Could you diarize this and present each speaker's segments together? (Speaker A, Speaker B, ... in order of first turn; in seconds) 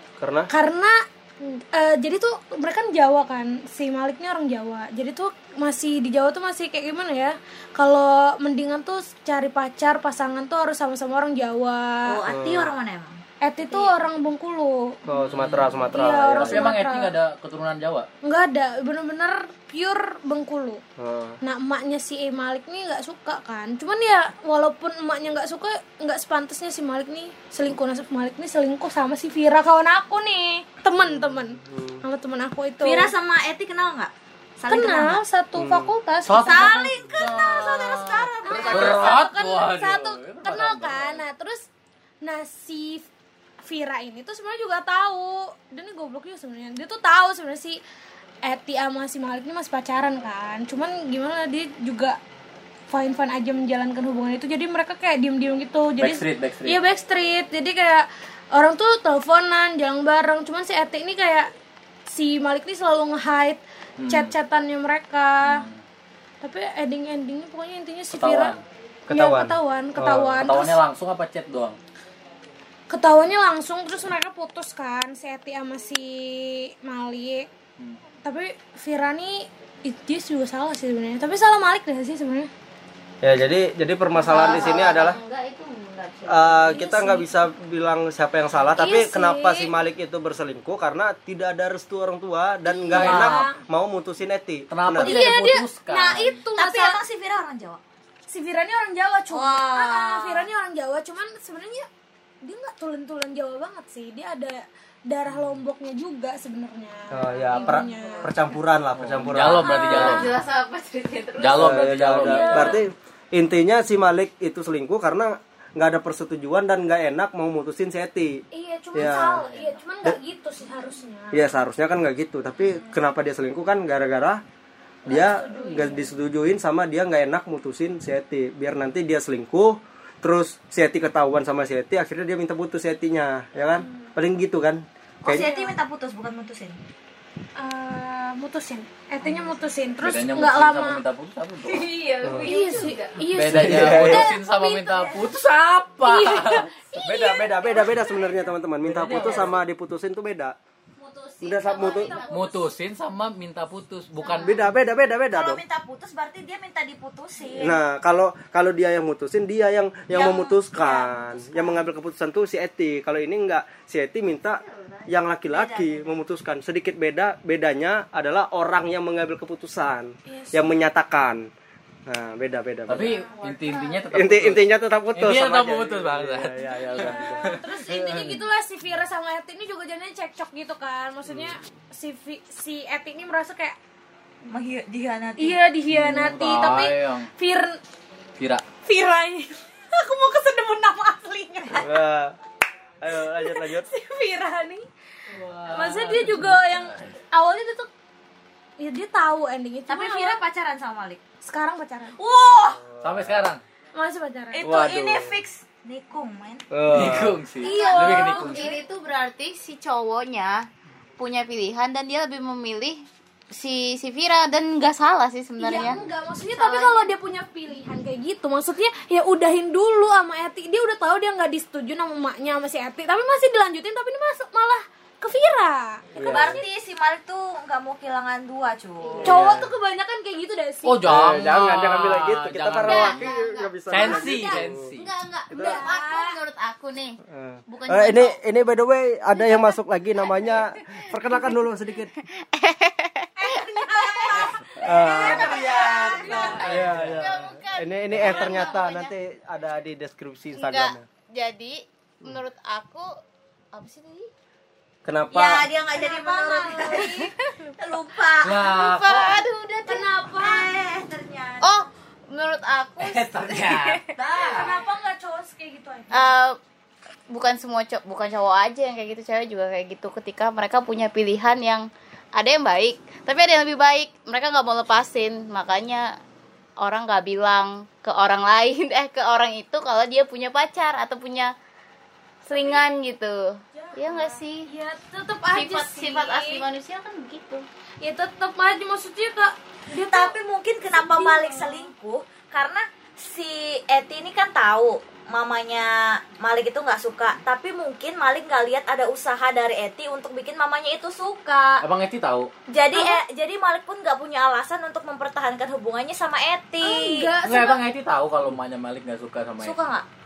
Speaker A: 0.2-0.5, 12.3-12.7, 15.1-16.7, 21.0-21.4, 31.0-32.0, 35.6-35.9, 69.1-70.4, 83.2-85.2, 86.3-95.1, 107.1-110.2, 111.5-118.4, 118.9-119.5, 121.3-124.4, 125.1-135.5, 142.2-142.5, 143.5-144.3, 147.0-150.6, 151.4-152.2, 154.4-155.6, 157.6-171.5, 172.1-173.2, 174.1-178.4, 181.3-181.6, 191.8-192.4, 193.0-193.9, 202.8-203.4, 206.7-207.4, 226.2-226.6, 229.2-229.7, 231.1-234.9, 235.5-235.9, 237.3-242.1, 244.8-245.5, 246.6-251.0, 255.1-255.7
Speaker B: 0.5-12.2, 13.4-15.0, 15.9-17.1, 18.2-20.8, 21.4-33.1, 34.7-36.8, 38.5-41.7, 42.2-43.1, 43.6-47.8, 48.4-52.2, 52.9-61.5, 62.1-65.6, 66.4-68.5, 69.1-70.8, 72.9-77.5, 78.2-82.5, 86.7-87.3, 88.8-89.7, 92.8-93.6, 95.0-97.0, 98.3-101.9, 102.4-108.5, 109.6-110.3, 112.2-112.9, 118.5-121.5, 125.1-126.1, 133.8-134.1, 135.3-135.8, 137.6-141.0, 142.4-145.3, 146.0-148.5, 149.1-149.4, 151.7-152.5, 170.3-170.6, 173.1-174.1, 176.6-183.8, 185.4-187.8, 188.8-192.0, 193.4-194.9, 195.7-197.9, 198.8-200.4, 201.4-202.2, 203.9-204.6, 207.6-208.8, 215.6-226.0, 229.2-231.1, 235.5-236.4, 243.4-246.8, 255.9-257.7, 259.8-260.7, 264.4-266.4, 282.5-282.9, 283.7-286.6, 288.0-291.9, 302.9-303.2, 306.8-307.8
Speaker C: 12.1-13.9, 32.8-35.2, 36.4-39.2, 96.6-97.8, 99.3-100.5, 135.2-136.8, 141.8-142.9, 155.3-157.8, 160.1-161.8, 165.5-166.1, 184.5-185.6, 199.9-201.2, 202.2-202.8, 204.5-206.7, 207.6-208.5, 215.7-216.0, 216.5-216.9, 226.2-229.4, 245.0-246.6, 255.3-258.7, 259.8-261.8, 264.2-264.7, 290.0-301.8, 302.7-307.3, 309.6-310.1
Speaker D: 15.2-15.8, 16.4-18.1, 36.2-41.2, 56.0-56.8, 64.0-64.3, 65.4-65.8, 68.1-68.6, 70.4-71.8, 92.9-93.5, 94.7-96.4, 109.0-110.4, 111.4-112.8, 119.0-119.8, 140.0-141.9, 143.3-146.7, 148.8-149.5, 152.3-154.6, 172.9-177.6, 185.9-187.3, 188.4-188.6, 195.3-197.1, 203.0-203.6, 204.6-205.3, 206.9-208.8, 230.8-233.3, 233.9-235.1, 244.3-247.4, 248.1-248.5, 258.4-259.4, 263.0-264.8, 301.8-302.5, 307.4-309.8
Speaker E: 84.2-86.8, 109.8-111.9, 141.8-143.2, 151.0-152.8, 154.2-154.6, 173.3-173.9, 208.4-210.7, 211.2-216.1, 229.0-229.4, 232.8-237.2, 237.7-238.4, 240.5-241.6, 242.2-244.5, 245.2-249.1, 250.6-253.1, 253.7-254.3, 256.9-257.6, 258.6-259.7, 261.6-264.1, 266.1-266.6, 267.3-276.2, 276.8-281.5, 282.4-284.7, 285.5-287.6